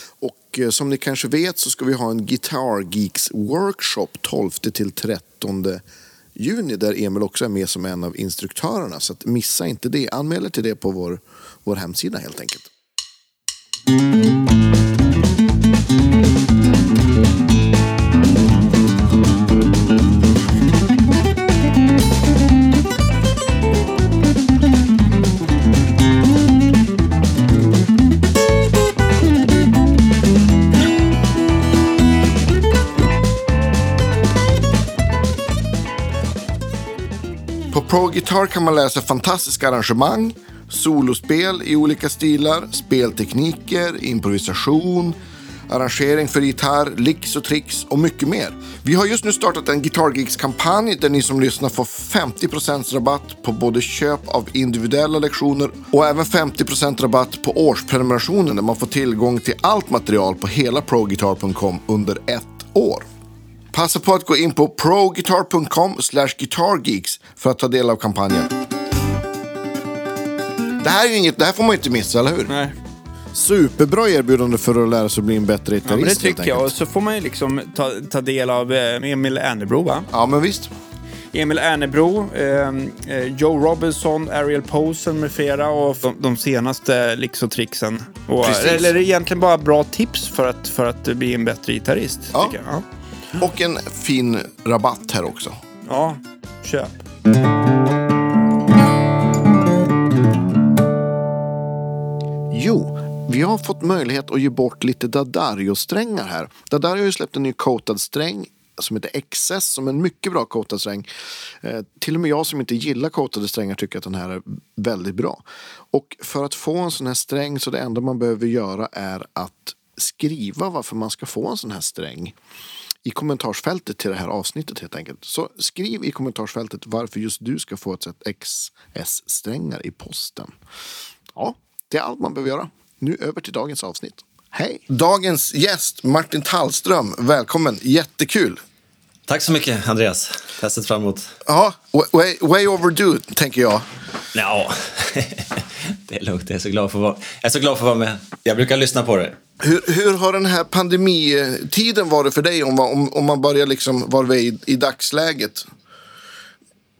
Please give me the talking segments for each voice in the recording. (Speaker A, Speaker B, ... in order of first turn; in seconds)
Speaker A: 0.2-5.8, 6.3-12.7, 37.7-45.2, 45.7-63.1, 63.7-68.5, 70.8-72.5, 73.3-76.7, 80.1-80.7, 88.4-88.9, 93.4-95.6, 102.5-111.1, 111.6-122.3, 123.0-130.5, 131.3-138.6, 141.4-143.8, 149.6-155.7
Speaker B: 72.5-72.7, 75.8-80.1, 81.3-92.8, 95.8-97.0
Speaker C: 139.3-141.3, 144.3-149.4